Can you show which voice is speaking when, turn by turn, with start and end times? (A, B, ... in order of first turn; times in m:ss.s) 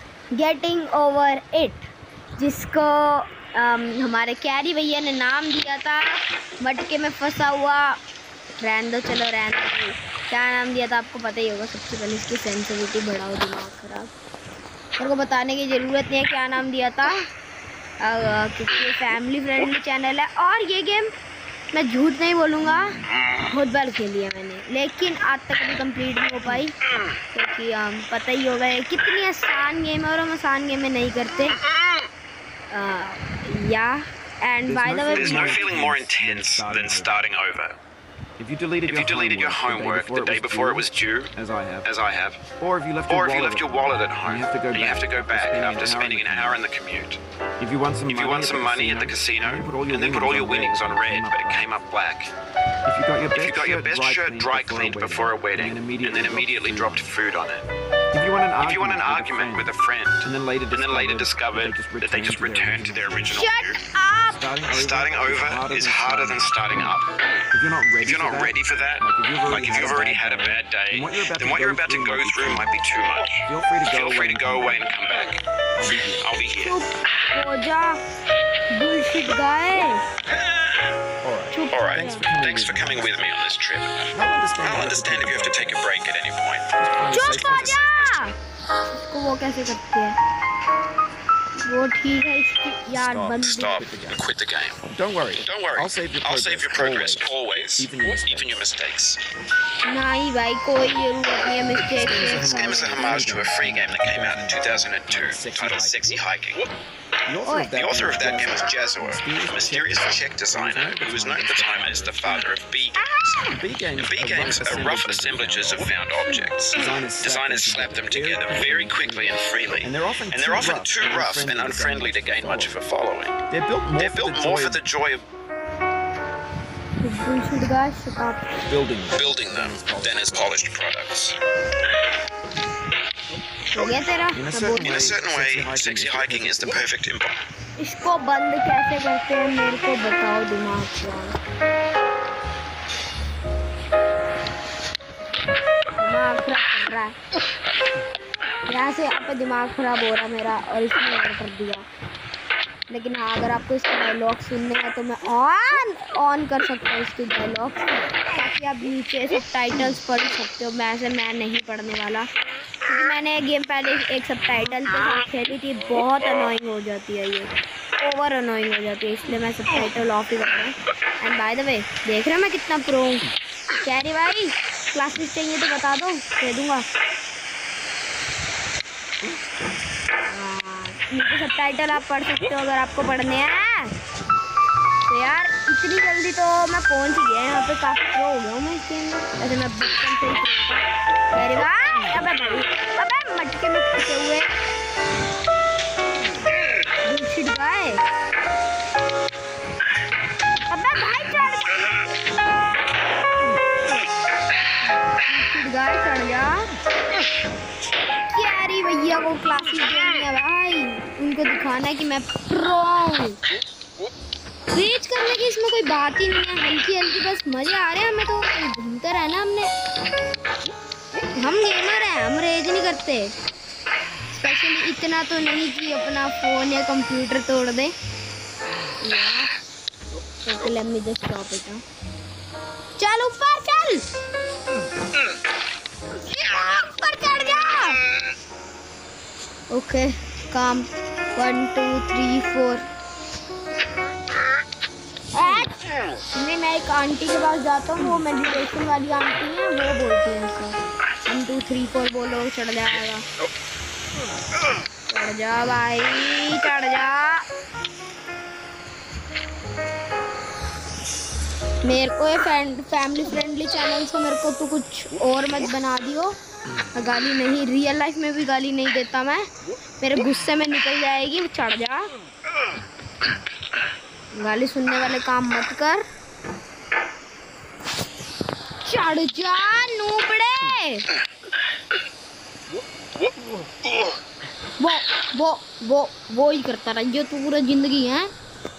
0:00.3-0:08.0 A
0:08.6-0:14.1 A
0:15.0-0:17.3 A
0:18.0-0:21.1 A
0:21.7-0:26.7 A
0:27.3-0:31.6 A
0:32.7-0:35.6 A
0:34.6-0:37.2 B
0:35.1-0:37.8 C
0:38.4-0:41.9 B
0:38.8-0:41.3 C
0:41.8-0:42.5 C
0:42.6-0:43.7 B
0:43.1-0:47.2 C
0:44.2-0:46.6 B
0:47.6-0:51.7 B
0:48.0-0:52.3 C
0:52.8-0:57.0 B
0:53.3-0:57.6 C
0:58.1-1:03.2 B
0:58.6-1:03.8 C
1:03.3-1:04.4 A
1:04.3-1:06.9 B
1:04.7-1:07.1 C
1:07.5-1:12.8 B
1:08.0-1:15.4 C
1:13.4-1:14.9 B
1:15.8-1:16.3 B
1:16.2-1:16.8 C
1:16.6-1:18.0 A
1:18.7-1:20.0 A
1:21.2-1:23.2 B
1:21.5-1:22.2 A
1:21.7-1:26.7 C
1:24.1-1:26.0 B
1:26.8-1:27.8 B
1:27.1-1:28.3 A
1:27.2-1:28.3 C
1:29.0-1:30.2 A
1:31.6-1:33.8 A
1:32.9-1:34.2 B
1:33.4-1:34.8 C
1:34.9-1:38.6 B
1:35.4-1:39.2 C
1:39.9-1:43.3 A
1:41.8-1:46.0 B
1:42.5-1:46.7 C
1:47.2-1:52.5 B
1:47.4-1:47.8 A
1:47.8-1:53.1 C
1:53.0-1:53.6 A
1:53.5-1:55.9 B
1:54.0-2:03.4 C
1:56.7-2:02.8 B
2:03.5-2:04.8 B
2:04.0-2:05.2 C
2:07.0-2:08.5 A
2:08.6-2:10.6 B
2:09.2-2:11.4 C
2:13.7-2:14.9 A
2:14.3-2:16.9 B
2:14.6-2:17.4 C
2:17.8-2:21.4 A
2:26.0-2:27.2 A
2:28.7-2:31.8 A
2:32.9-2:42.3 A
2:42.8-2:53.2 A
2:53.8-2:56.9 A
3:00.2-3:03.9 A
3:05.1-3:14.5 A
3:17.0-3:18.0 A
3:20.7-3:22.0 A
3:25.2-3:26.7 A
3:28.3-3:33.4 A
3:34.7-3:39.7 A
3:41.4-3:43.3 A
3:44.3-3:47.9 A
3:49.0-3:49.5 A
3:50.4-3:51.8 A
3:53.0-3:54.1 A
3:56.2-3:58.0 A
3:59.7-4:02.8 A
4:05.3-4:05.8 A
4:06.3-4:13.2 A
4:15.1-4:17.4 A
4:21.8-4:26.4 A
4:26.9-4:29.4 A
4:30.0-4:32.1 A
4:34.3-4:36.0 A
4:38.8-4:41.0 A
4:44.8-4:48.3 A